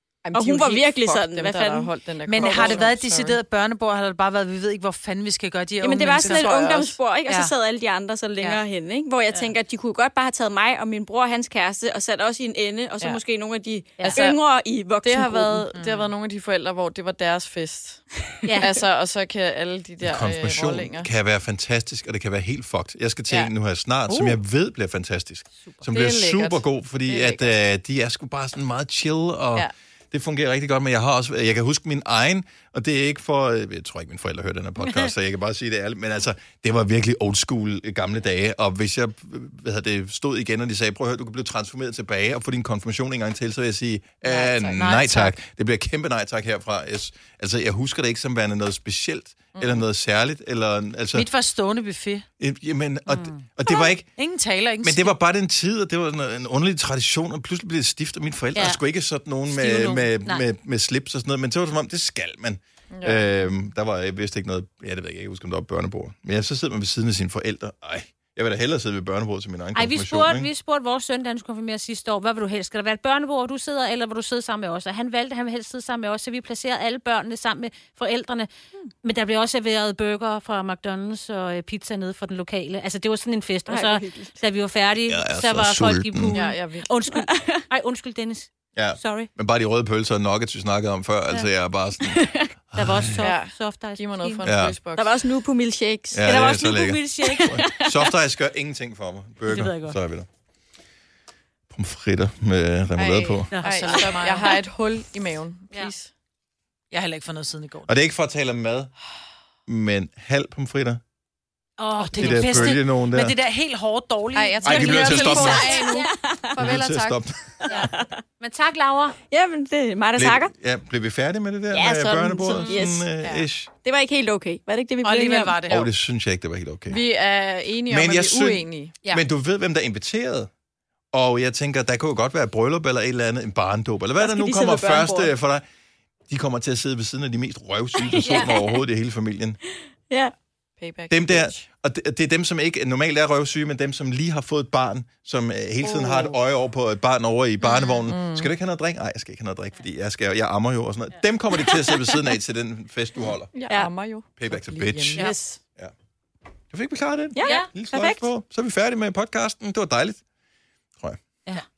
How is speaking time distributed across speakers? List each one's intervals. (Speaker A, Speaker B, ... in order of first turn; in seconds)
Speaker A: 0.2-3.4, 6.2-7.0, 14.0-14.4, 15.0-21.1, 25.9-27.5, 44.3-45.0, 49.5-49.9, 62.9-63.2, 86.3-86.9, 93.2-95.2, 102.9-106.1, 114.3-117.2, 123.2-123.5, 126.9-128.9, 140.8-141.6, 148.1-148.5, 153.5-155.4
Speaker B: 0.3-2.8, 5.8-15.7, 83.7-84.4, 87.1-87.6, 92.0-92.5, 94.9-96.4, 97.2-98.1, 115.7-116.6, 117.6-118.2, 119.3-120.5, 121.7-123.1, 123.8-125.7, 134.2-135.3, 138.0-138.8, 151.7-152.0, 157.3-158.3
Speaker C: 2.2-6.5, 15.7-16.1, 44.3-45.3, 51.1-52.2, 54.1-55.1, 59.6-60.0, 99.5-100.0, 103.7-104.4, 106.9-107.9, 112.0-116.0, 125.0-125.9, 145.8-146.3, 155.2-155.6
Speaker D: 14.0-14.2, 18.4-18.7, 34.8-35.1, 53.1-53.5, 58.5-58.8, 59.5-60.4, 69.7-89.3, 92.7-94.5, 96.2-97.8, 103.5-104.4, 111.8-112.8, 115.8-116.1, 117.7-119.2, 138.2-138.6, 157.4-157.7
Speaker E: 20.1-51.3, 52.4-54.0, 54.8-70.5, 85.1-86.4, 88.7-92.2, 92.7-93.2, 94.4-94.8, 96.1-100.3, 101.7-103.5, 107.9-108.9, 109.7-111.0, 112.2-113.3, 114.6-115.8, 116.6-117.6, 120.2-123.7, 125.7-127.0, 127.9-130.5, 131.1-135.6, 136.3-139.6, 141.1-153.5, 154.4-155.2, 156.7-160.2, 161.0-161.4